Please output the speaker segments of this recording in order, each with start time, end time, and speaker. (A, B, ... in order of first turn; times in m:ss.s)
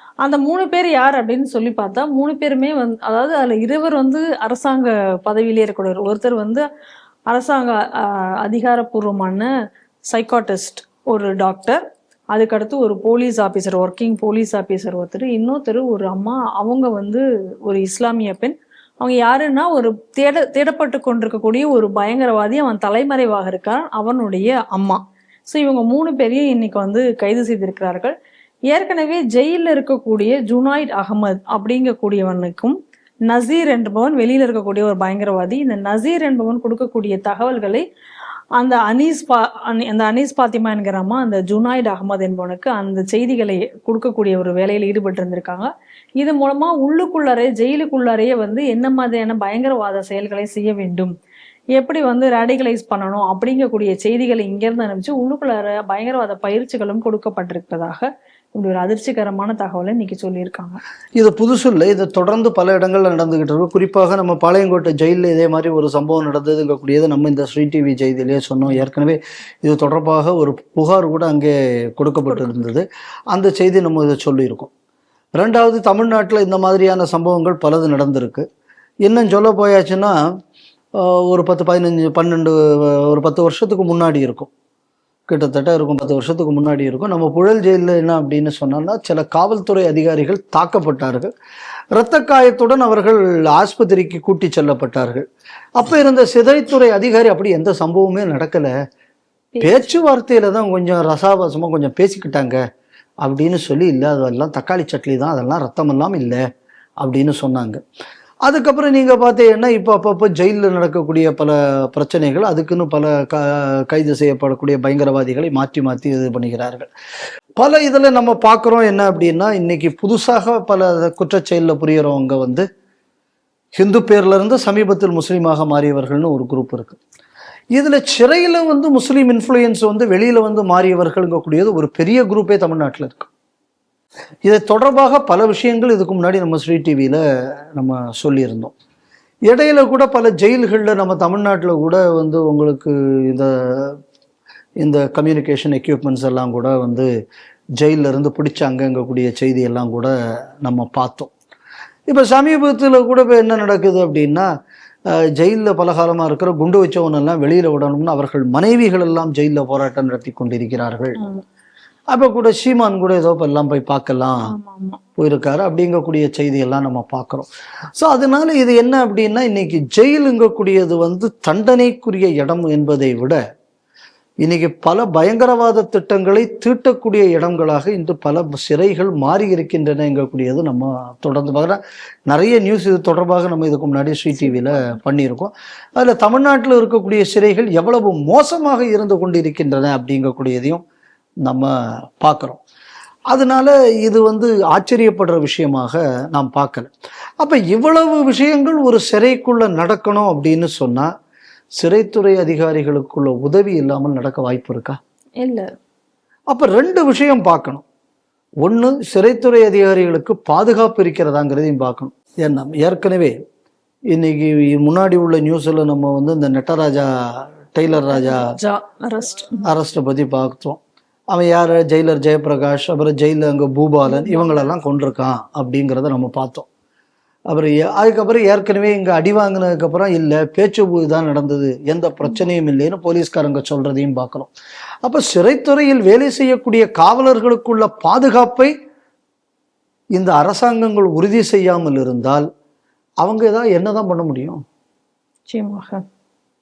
0:00.2-0:06.6 A
0:07.3-0:09.5 A
0:10.1-0:11.8 A
0:12.3-0:28.1 A
0:28.7-0:32.8 A
0:33.3-0:37.8 A
0:38.6-0:45.7 A
0:46.2-0:51.1 A
0:51.8-1:00.8 A
1:01.2-1:14.7 B
1:12.3-1:12.7 A
1:15.4-1:18.4 B
1:19.0-1:20.1 B
1:21.0-1:24.5 B
1:25.3-1:31.3 B
1:32.0-1:35.2 B
1:35.8-1:38.7 B
1:39.6-1:40.0 A
1:39.6-1:42.6 B
1:43.2-1:46.4 B
1:47.0-1:47.8 B
1:48.4-1:56.9 B
1:57.6-2:02.6 B
2:03.8-2:07.0 B
2:07.8-2:13.3 B
2:14.4-2:17.2 B
2:17.8-2:18.7 B
2:19.5-2:24.0 B
2:24.8-2:27.1 B
2:27.8-2:31.3 B
2:32.1-2:34.5 B
2:35.1-2:41.2 B
2:42.1-2:44.5 B
2:44.5-2:45.0 A
2:45.2-2:53.4 B
2:54.4-3:10.8 B
3:04.4-3:05.0 A
3:11.4-3:12.6 B
3:13.3-3:21.1 B
3:21.8-3:25.0 B
3:25.4-3:25.7 A
3:26.5-3:27.8 B
3:28.6-3:33.4 B
3:34.1-3:38.4 B
3:38.1-3:39.7 A
3:39.6-3:40.8 B
3:41.3-3:46.7 B
3:44.1-3:44.7 A
3:47.5-3:54.5 B
3:55.0-3:58.7 B
4:00.2-4:02.4 B
4:03.2-4:04.6 B
4:05.5-4:06.0 A